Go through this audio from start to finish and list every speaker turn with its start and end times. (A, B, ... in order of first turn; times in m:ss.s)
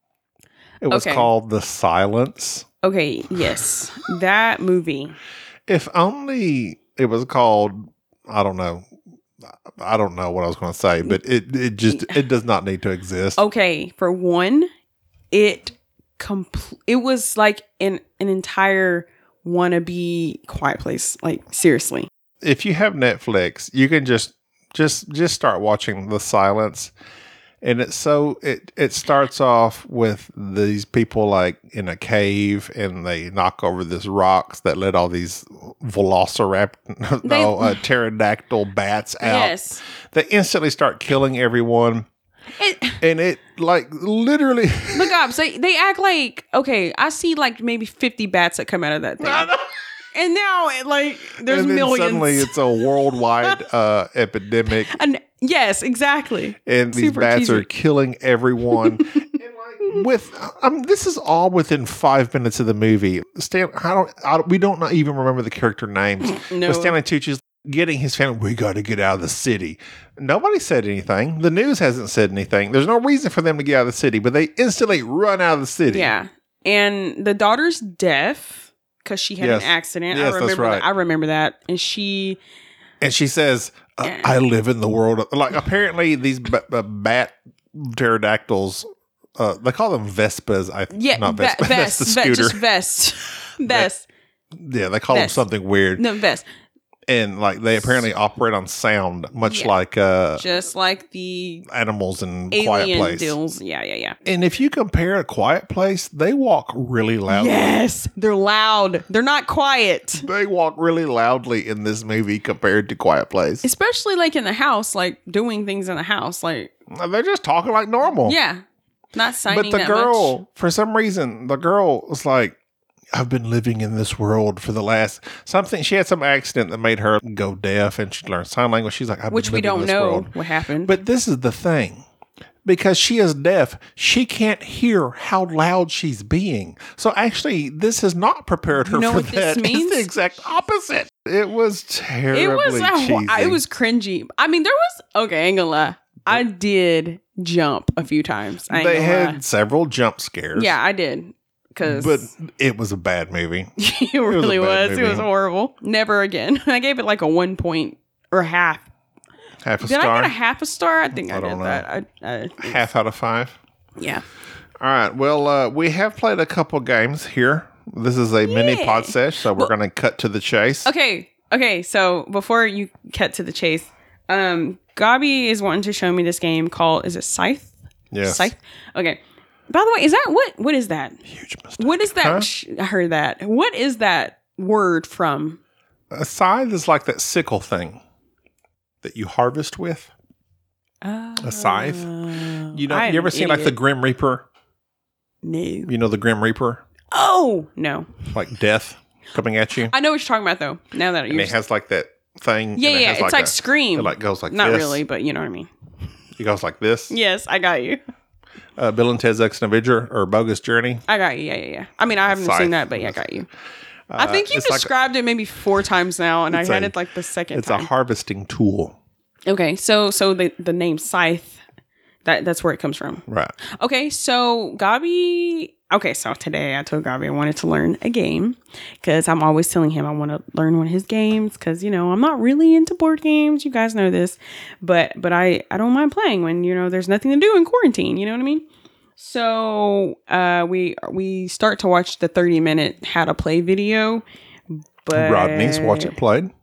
0:00.8-0:02.6 A
0:00.9-0:01.3 B
0:02.8-0:05.1 B
0:05.7-0:08.8 A
0:09.8-0:13.4 A
0:11.9-0:12.2 B
0:13.4-0:14.7 B
0:15.3-0:22.1 B
0:22.4-0:26.9 A
0:27.6-0:39.6 A
0:37.2-0:37.8 B
0:39.2-0:39.8 B
0:40.1-0:42.1 A
0:42.6-0:43.0 B
0:43.0-0:45.2 A
0:44.9-0:49.6 B
0:49.2-0:49.6 A
0:50.1-0:52.8 B
0:51.4-0:54.9 A
0:54.7-0:57.7 B
0:56.7-1:16.1 A
0:58.7-0:59.2 B
1:06.3-1:07.0 B
1:15.9-1:22.4 B
1:19.4-1:20.9 A
1:23.0-1:28.8 A
1:24.0-1:24.4 B
1:29.4-1:32.6 A
1:30.9-1:34.0 B
1:34.6-1:36.0 A
1:35.1-1:35.4 B
1:36.0-1:36.4 B
1:37.1-1:40.4 A
1:39.4-1:39.8 B
1:40.4-1:41.7 B
1:41.7-1:43.4 A
1:42.5-1:44.2 B
1:44.2-1:47.7 A
1:47.3-1:50.2 B
1:50.1-1:53.6 A
1:53.6-1:56.7 B
1:56.9-1:58.4 A
1:58.2-1:58.6 B
1:59.1-2:00.3 B
1:59.5-2:02.6 A
2:03.1-2:10.3 A
2:09.3-2:11.0 B
2:10.8-2:12.0 A
2:12.6-2:23.6 A
2:18.8-2:20.1 B
2:22.3-2:29.4 B
2:28.7-2:30.7 A
2:30.5-2:32.3 B
2:31.8-2:33.7 A
2:33.8-2:38.8 B
2:34.3-2:35.3 A
2:39.6-2:40.3 A
2:39.8-2:42.8 B
2:41.1-2:41.8 A
2:42.6-2:43.6 A
2:44.0-2:44.2 B
2:44.8-2:50.9 A
2:48.4-2:49.7 B
2:50.8-3:01.2 B
2:58.1-2:58.5 A
3:01.3-3:02.5 A
3:01.8-3:05.6 B
3:06.1-3:08.0 A
3:09.0-3:10.1 A
3:11.0-3:13.8 B
3:11.4-3:12.1 A
3:12.7-3:14.4 A
3:15.4-3:15.9 B
3:15.9-3:16.8 A
3:17.1-3:18.3 B
3:18.3-3:19.9 A
3:19.8-3:21.6 B
3:21.3-3:25.0 A
3:22.7-3:25.7 B
3:26.4-3:27.1 A
3:27.1-3:28.0 B
3:28.8-3:31.0 A
3:31.1-3:33.5 B
3:32.2-3:33.3 A
3:34.1-3:34.9 A
3:34.2-3:37.9 B
3:36.5-3:36.9 A
3:37.5-3:39.0 A
3:39.5-3:41.6 B
3:42.2-3:43.2 B
3:43.3-3:43.5 A
3:43.8-3:58.6 B
3:59.2-4:04.2 B
4:05.0-4:06.1 B
4:05.1-4:06.5 A